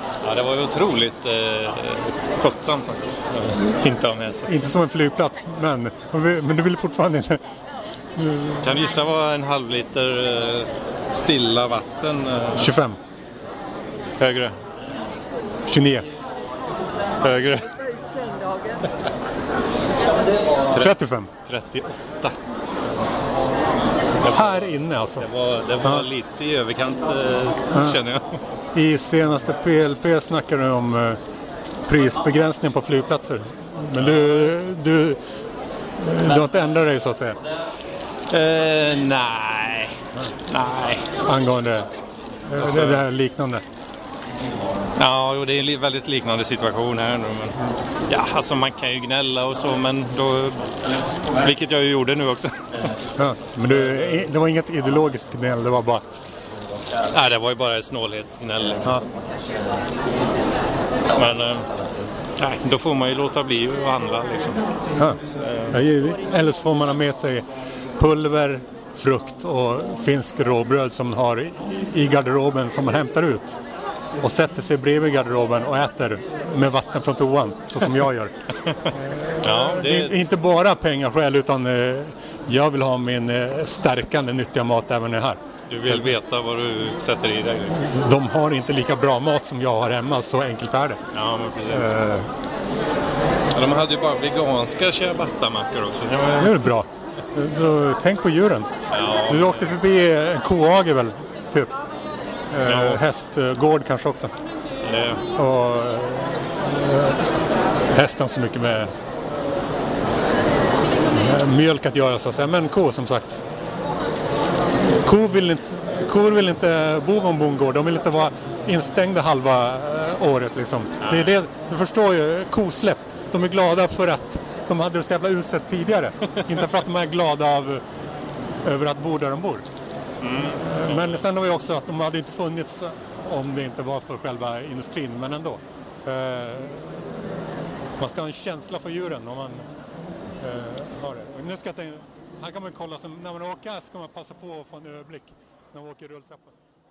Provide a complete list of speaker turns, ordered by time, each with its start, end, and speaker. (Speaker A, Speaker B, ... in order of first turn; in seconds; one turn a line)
Speaker A: 0.2-4.7
Speaker B: 4.5-7.4
Speaker B: 8.2-8.8
Speaker A: 8.6-12.7
Speaker B: 12.5-13.0
Speaker A: 14.2-14.6
Speaker B: 15.7-16.1
Speaker A: 17.2-17.9
Speaker A: 20.7-22.4
Speaker B: 20.8-21.3
Speaker A: 24.2-28.4
Speaker B: 24.3-25.3
Speaker B: 25.8-26.1
Speaker B: 27.7-28.0
Speaker B: 28.7-31.2
Speaker B: 31.9-35.2
Speaker A: 34.0-34.4
Speaker B: 36.0-37.4
Speaker A: 38.3-41.1
Speaker B: 41.2-41.9
Speaker B: 42.5-43.6
Speaker A: 42.6-43.0
Speaker A: 45.0-50.7
Speaker A: 51.4-52.9
Speaker B: 53.2-56.0
Speaker A: 53.7-54.2
Speaker A: 57.1-59.2
Speaker A: 61.1-61.7
Speaker A: 62.4-64.6
Speaker A: 65.3-65.8
Speaker B: 65.7-67.4
Speaker B: 68.0-73.6
Speaker B: 74.2-78.3
Speaker B: 79.1-86.1
Speaker A: 79.4-80.2
Speaker A: 85.7-87.9
Speaker B: 87.8-91.0
Speaker A: 91.1-92.0
Speaker B: 91.7-92.3
Speaker A: 93.5-96.6
Speaker B: 96.4-98.7
Speaker A: 98.9-99.7
Speaker B: 99.3-101.7
Speaker B: 102.5-104.3
Speaker A: 102.6-103.0
Speaker A: 104.8-105.2
Speaker B: 105.3-107.3
Speaker B: 107.9-108.9
Speaker B: 111.1-113.4
Speaker B: 115.0-127.8
Speaker A: 121.0-121.3
Speaker B: 128.6-129.7
Speaker A: 130.2-131.2
Speaker B: 130.6-137.2
Speaker B: 138.0-139.7
Speaker B: 140.4-146.5